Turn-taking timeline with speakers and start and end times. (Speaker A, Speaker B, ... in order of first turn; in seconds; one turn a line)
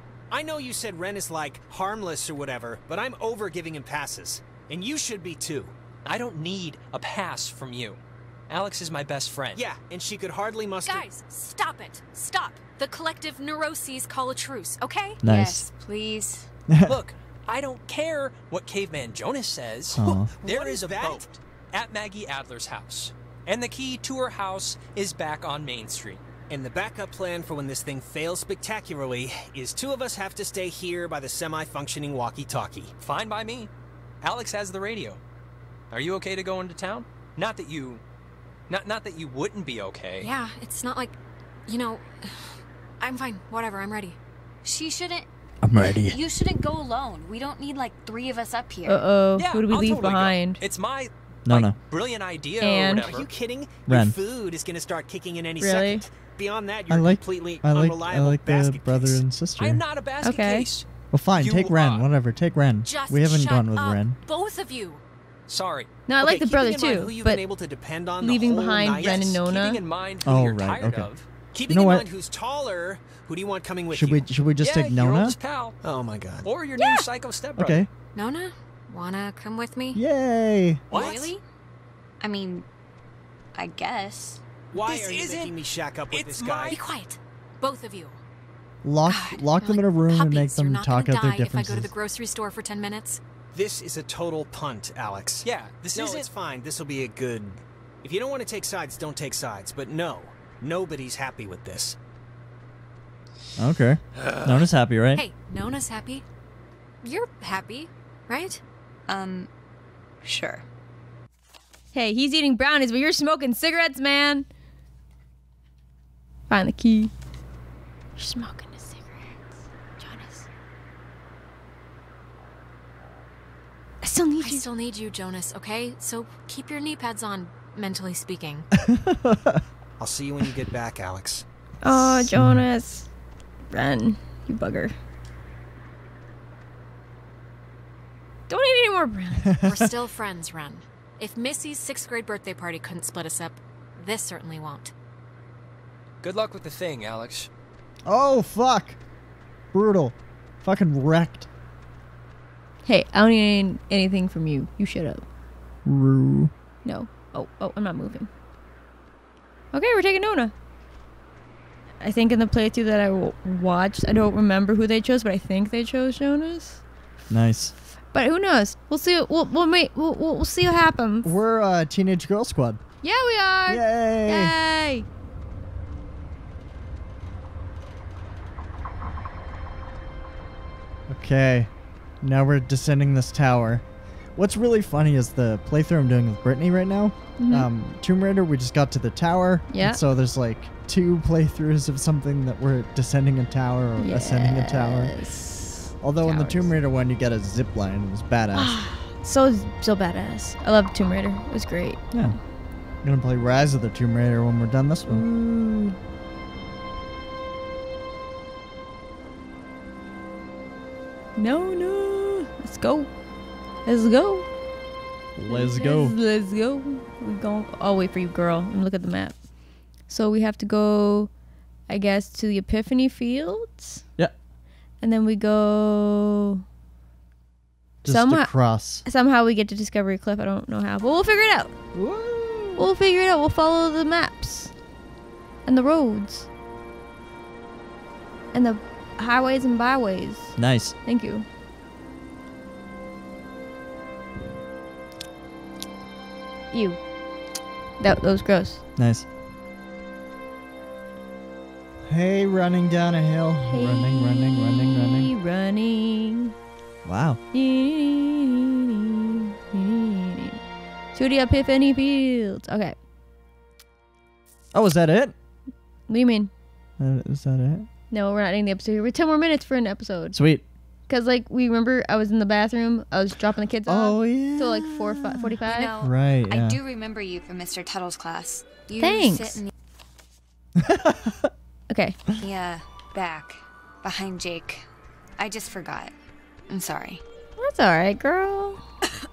Speaker A: 0.3-5.8
Speaker B: 6.0-9.6
Speaker A: 9.5-11.1
Speaker C: 10.8-15.2
Speaker D: 15.2-15.7
Speaker E: 15.2-16.5
Speaker D: 16.7-17.0
Speaker B: 16.8-26.2
Speaker D: 19.9-20.3
Speaker A: 20.4-21.3
Speaker A: 26.5-32.9
Speaker B: 33.0-33.7
Speaker B: 34.2-35.2
Speaker B: 35.9-38.0
Speaker B: 38.7-40.3
Speaker C: 40.2-44.2
Speaker E: 44.6-49.0
Speaker D: 45.6-46.2
Speaker F: 48.9-50.6
Speaker B: 49.3-53.3
Speaker D: 51.5-51.8
Speaker F: 52.6-53.0
Speaker A: 52.9-59.2
Speaker D: 53.9-54.1
Speaker F: 55.6-56.0
Speaker D: 56.9-59.8
Speaker B: 59.6-62.1
Speaker F: 60.2-60.7
Speaker D: 61.1-64.2
Speaker C: 62.8-65.0
Speaker B: 65.5-65.9
Speaker F: 66.1-67.4
Speaker A: 66.2-69.4
Speaker F: 68.2-69.8
Speaker B: 68.9-71.3
Speaker D: 70.2-71.1
Speaker A: 71.5-74.3
Speaker D: 71.7-72.1
Speaker D: 73.9-75.4
Speaker B: 74.6-75.8
Speaker A: 75.8-76.5
Speaker B: 76.4-77.9
Speaker C: 76.8-77.1
Speaker D: 77.6-77.9
Speaker C: 78.1-80.0
Speaker D: 79.9-80.8
Speaker E: 80.9-81.4
Speaker C: 80.9-81.4
Speaker E: 82.2-82.7
Speaker E: 83.5-84.4
Speaker B: 84.7-85.6
Speaker A: 84.7-86.8
Speaker B: 86.1-86.8
Speaker C: 86.7-88.2
Speaker D: 88.8-91.9
Speaker C: 89.1-93.2
Speaker A: 93.5-102.0
Speaker B: 95.4-96.3
Speaker D: 103.6-105.2
Speaker C: 105.1-106.2
Speaker C: 107.0-108.6
Speaker E: 109.1-109.5
Speaker E: 110.2-110.7
Speaker F: 111.9-114.5
Speaker F: 116.5-117.1
Speaker F: 118.2-119.4
Speaker F: 120.0-120.5
Speaker F: 124.0-124.7
Speaker C: 124.4-128.7
Speaker D: 128.8-129.6
Speaker A: 130.0-131.4
Speaker F: 131.8-133.1
Speaker D: 131.8-132.6
Speaker F: 133.7-134.9
Speaker F: 138.5-139.5
Speaker D: 139.5-139.9
Speaker C: 139.6-144.9
Speaker B: 146.2-147.5
Speaker D: 148.1-149.0
Speaker D: 149.7-151.5
Speaker F: 152.8-155.2
Speaker D: 155.8-156.5
Speaker F: 156.8-158.3
Speaker F: 159.7-160.5
Speaker F: 162.0-166.8
Speaker D: 167.3-167.7
Speaker F: 168.1-171.3
Speaker D: 171.2-172.8
Speaker F: 173.0-175.1
Speaker D: 173.7-174.5
Speaker D: 181.1-181.7
Speaker D: 182.2-183.8
Speaker D: 184.3-195.2
Speaker F: 187.4-187.7
Speaker F: 189.7-190.0
Speaker F: 194.0-196.7
Speaker D: 196.0-198.8
Speaker F: 198.5-202.2
Speaker D: 202.1-202.4
Speaker D: 203.0-205.2
Speaker F: 205.1-206.0
Speaker F: 211.4-213.1
Speaker F: 213.8-214.4
Speaker D: 215.3-216.2
Speaker F: 215.5-219.3
Speaker F: 220.1-221.3
Speaker F: 221.9-224.0
Speaker F: 225.0-226.6
Speaker D: 228.0-229.0
Speaker F: 228.1-228.5
Speaker F: 229.0-231.7
Speaker D: 231.9-232.8
Speaker F: 232.8-234.7
Speaker F: 235.7-236.5
Speaker F: 238.5-241.4
Speaker D: 240.6-240.9
Speaker F: 246.7-247.0
Speaker F: 248.0-248.8
Speaker D: 249.0-249.2
Speaker D: 252.1-255.3
Speaker F: 253.7-256.5
Speaker D: 257.1-257.4
Speaker F: 257.5-260.6
Speaker F: 261.1-262.9
Speaker D: 264.7-265.3
Speaker F: 266.1-266.5
Speaker D: 267.0-267.9
Speaker F: 268.1-270.4
Speaker D: 270.3-270.6
Speaker F: 271.1-275.9
Speaker D: 273.9-276.8
Speaker E: 275.7-279.7
Speaker F: 279.0-279.6
Speaker D: 280.8-281.5
Speaker F: 281.9-282.2
Speaker E: 282.4-284.9
Speaker E: 285.4-286.1
Speaker E: 286.7-287.2
Speaker F: 287.6-288.8